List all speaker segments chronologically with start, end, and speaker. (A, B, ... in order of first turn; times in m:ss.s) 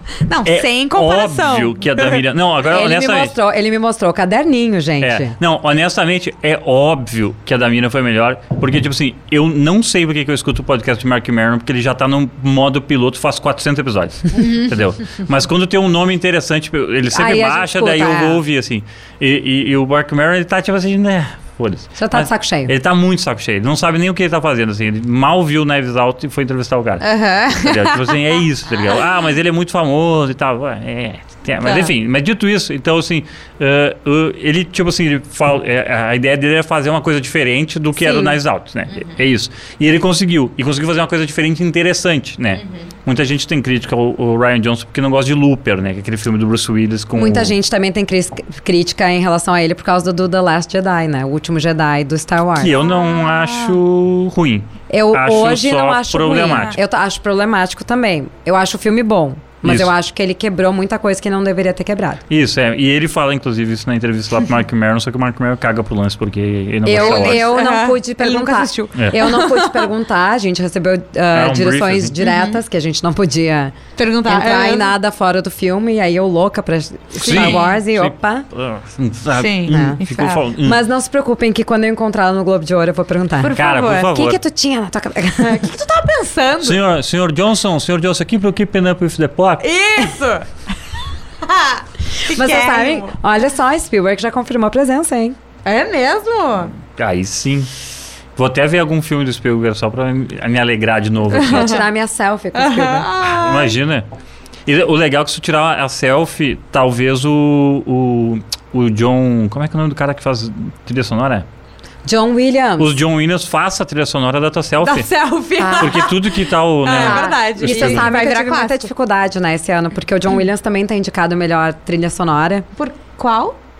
0:00.2-0:02.2 A
0:00.4-0:03.3 B
0:02.7-0:05.3 C
0:05.0-0:27.0 B
0:17.1-0:18.4 C
0:22.0-0:22.7 C
0:27.0-0:28.2 A
0:27.6-0:47.6 B
0:31.6-0:31.9 A
0:38.0-0:38.4 C
0:47.1-0:52.8 C
0:52.6-0:56.8 B
0:52.8-0:53.8 A
0:54.9-1:02.2 C
0:59.6-0:59.9 B
1:02.3-1:07.5 B
1:06.8-1:18.5 C
1:06.9-1:09.9 A
1:11.3-1:12.2 B
1:12.2-1:12.6 A
1:14.0-1:14.9 A
1:17.2-1:17.8 A
1:17.2-1:20.8 B
1:19.4-1:20.4 A
1:19.7-1:20.0 C
1:20.6-1:25.8 C
1:23.4-1:24.1 A
1:23.6-1:24.4 B
1:25.4-1:26.8 A
1:26.6-1:29.6 B
1:29.6-1:30.6 A
1:31.4-1:33.1 A
1:32.2-1:35.4 C
1:35.6-1:36.7 A
1:37.0-1:37.7 B
1:38.4-1:41.8 B
1:41.3-1:41.8 A
1:41.4-1:43.1 C
1:42.5-1:43.7 A
1:43.2-1:44.0 B
1:44.6-1:51.4 B
1:52.0-1:52.9 C
1:52.8-1:55.1 B
1:54.8-1:58.9 A
1:55.6-1:56.1 C
1:55.8-1:58.1 B
1:56.9-2:02.7 C
2:02.8-2:03.6 A